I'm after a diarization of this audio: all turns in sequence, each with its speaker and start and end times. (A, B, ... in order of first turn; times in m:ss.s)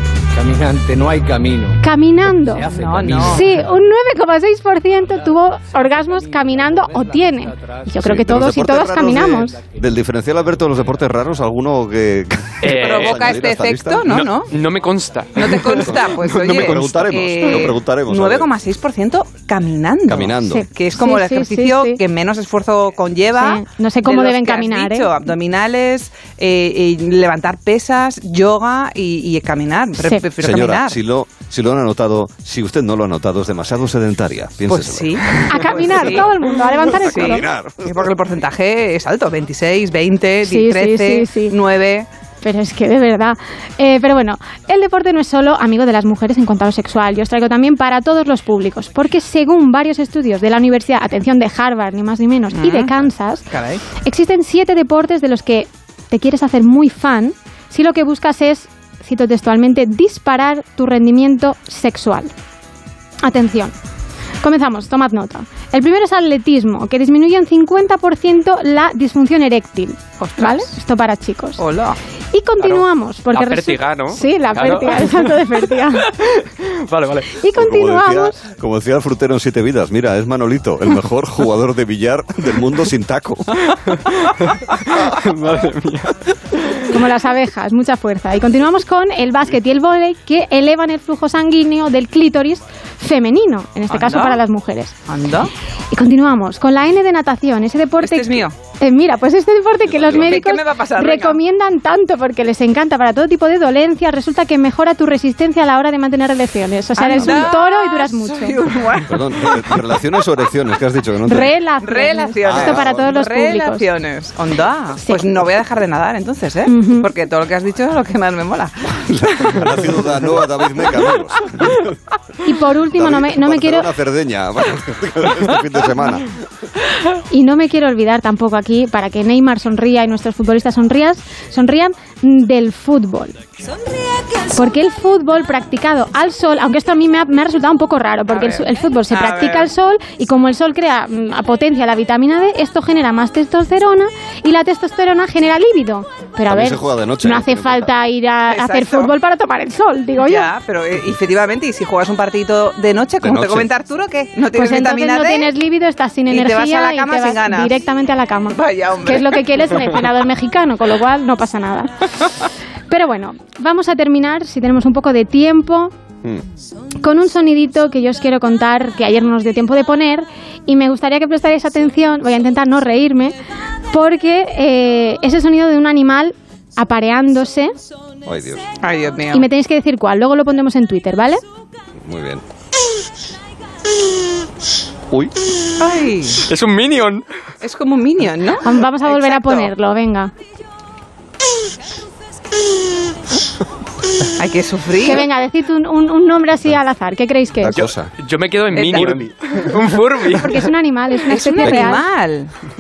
0:00.4-0:03.8 A
0:01.8-0:09.6 B
0:02.7-0:03.6 C
0:05.1-0:08.0 A
0:08.0-0:14.1 D
0:09.4-0:09.8 A
0:12.6-0:13.3 E
0:12.6-0:14.6 C
0:14.1-0:16.9 E
0:15.4-0:31.0 C
0:15.7-0:18.5 D
0:20.1-0:20.6 D
0:20.4-0:22.0 B
0:23.3-0:25.2 B
0:30.4-0:36.2 D
0:34.7-0:42.1 C
0:35.5-0:37.5 B
0:36.9-0:38.1 D
0:40.4-0:41.6 B
0:42.4-1:02.3 B
0:52.5-0:53.8 C
1:03.2-1:03.8 B
1:04.4-1:11.6 B
1:10.2-1:10.7 C
1:11.6-1:12.0 C
1:12.3-1:16.2 B
1:12.6-1:15.4 E
1:16.2-1:17.4 E
1:17.4-1:18.4 B
1:17.5-1:23.8 D
1:23.8-1:26.9 E
1:26.8-1:35.0 B
1:33.9-1:34.4 C
1:35.1-1:35.5 C
1:35.9-1:48.7 B
1:38.0-1:38.6 C
1:39.9-1:40.4 D
1:40.2-1:41.4 C
1:47.0-1:49.8 C
1:47.2-1:47.5 D
1:49.1-1:51.5 D
1:51.3-1:53.9 B
1:51.8-1:59.6 C
1:52.4-1:53.2 D
1:55.0-1:55.3 B
1:56.6-1:57.1 B
1:59.0-2:02.0 D
2:02.4-2:03.9 B
2:02.8-2:06.3 D
2:07.3-2:13.4 B
2:14.3-2:30.5 B
2:18.3-2:19.7 C
2:26.5-2:27.9 D
2:28.5-2:29.2 C
2:30.2-2:35.6 C
2:33.2-2:33.7 D
2:34.5-2:45.9 B
2:36.3-2:37.8 C
2:38.5-2:39.5 C
2:47.0-2:53.4 B
2:53.9-2:57.7 B
2:58.3-2:58.7 D
2:58.8-2:59.5 C
2:59.3-3:01.4 B
3:02.0-3:02.4 D
3:05.8-3:06.5 C
3:06.4-3:07.2 E
3:07.6-3:09.7 C
3:08.6-3:10.3 B
3:14.4-3:15.3 C
3:15.0-3:17.8 B
3:17.6-3:18.1 D
3:18.2-3:20.7 E
3:18.7-3:19.3 C
3:20.4-3:22.0 B
3:21.3-3:22.5 C